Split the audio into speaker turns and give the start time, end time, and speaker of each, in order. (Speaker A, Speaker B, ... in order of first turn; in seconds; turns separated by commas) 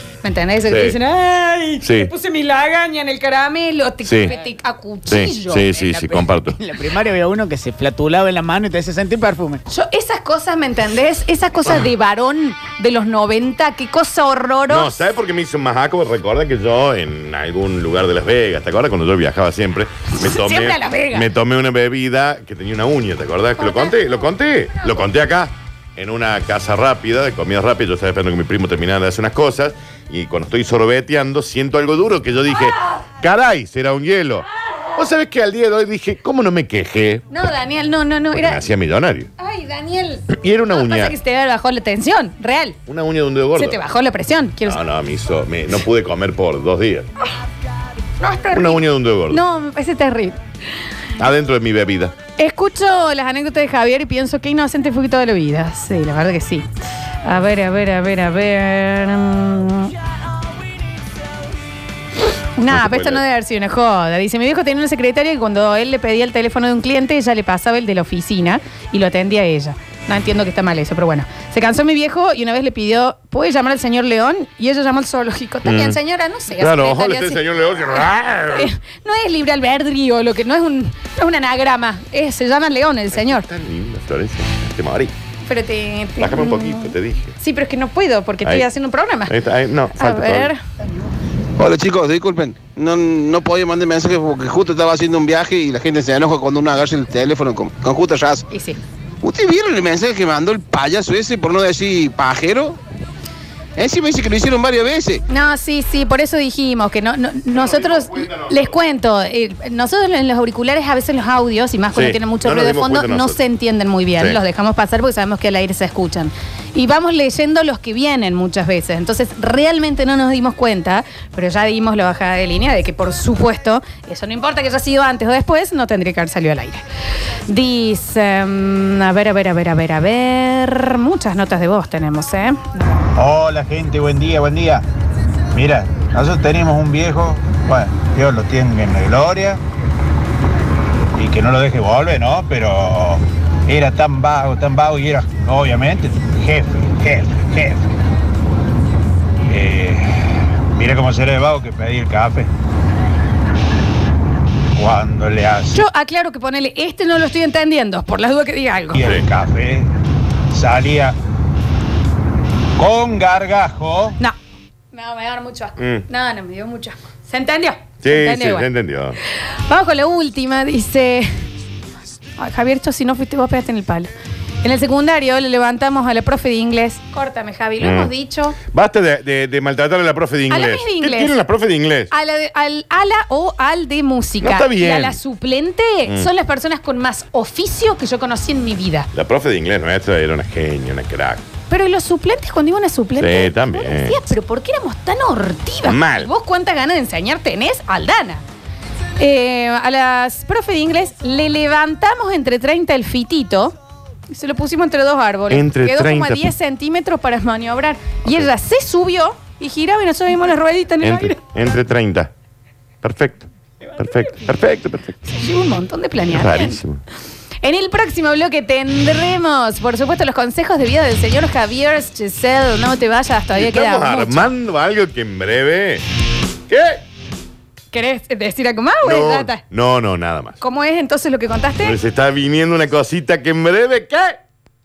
Speaker A: 0.2-5.9, Speaker B: 0.7-1.0, Speaker B: 1.8-2.1, Speaker B: 4.0-4.3, Speaker B: 5.1-6.6, Speaker C: 5.8-9.6, Speaker A: 9.7-15.0, Speaker B: 14.7-37.3, Speaker A: 20.1-21.3, Speaker A: 23.6-24.1, Speaker A: 37.3-38.6, Speaker B: 38.3-39.3, Speaker A: 39.4-42.8, Speaker B: 40.3-41.1, Speaker B: 42.9-43.8, Speaker A: 43.5-44.8, Speaker B: 44.6-47.1, Speaker A: 48.2-50.4, Speaker B: 48.5-49.4, Speaker B: 51.2-52.1, Speaker A: 52.4-56.7, Speaker A: 57.2-59.9, Speaker A: 62.6-77.4, Speaker B: 62.7-63.2, Speaker B: 75.6-76.0, Speaker B: 76.6-78.7, Speaker A: 78.5-83.5, Speaker B: 83.1-85.1, Speaker A: 85.4-89.3, Speaker B: 86.2-87.4, Speaker B: 89.3-90.5, Speaker A: 90.0-90.6, Speaker D: 91.6-98.5, Speaker A: 98.5-98.8, Speaker D: 99.2-102.8, Speaker D: 103.8-105.2, Speaker A: 105.3-126.8, Speaker B: 107.5-108.8, Speaker B: 111.9-113.4, Speaker A: 127.5-132.8, Speaker E: 133.2-134.8, Speaker E: 135.5-139.6, Speaker E: 141.2-147.9, Speaker E: 149.5-152.5, Speaker E: 154.8-155.8, Speaker A: 155.7-159.0, Speaker E: 158.9-159.9, Speaker E: 160.5-161.2, Speaker E: 162.8-164.2, Speaker A: 164.9-168.7, Speaker B: 165.8-166.1, Speaker B: 168.0-169.2, Speaker A: 169.7-171.3, Speaker A: 172.4-174.1, Speaker A: 174.6-178.6, Speaker B: 177.8-178.1, Speaker B: 178.7-182.1, Speaker A: 180.5-181.3, Speaker A: 182.1-189.1, Speaker B: 184.4-185.2, Speaker B: 189.1-191.4, Speaker A: 191.7-198.4, Speaker B: 193.2-194.3, Speaker B: 195.8-196.3, Speaker A: 199.2-203.7, Speaker A: 204.3-211.4, Speaker B: 205.5-206.5, Speaker B: 211.0-212.3, Speaker B: 213.0-215.2, Speaker A: 214.0-214.5, Speaker A: 215.3-216.8, Speaker B: 216.3-217.0, Speaker A: 217.6-224.5, Speaker B: 223.6-226.0, Speaker B: 226.7-227.0, Speaker A: 227.9-229.6, Speaker B: 229.0-230.6, Speaker A: 230.6-232.0, Speaker B: 231.8-234.4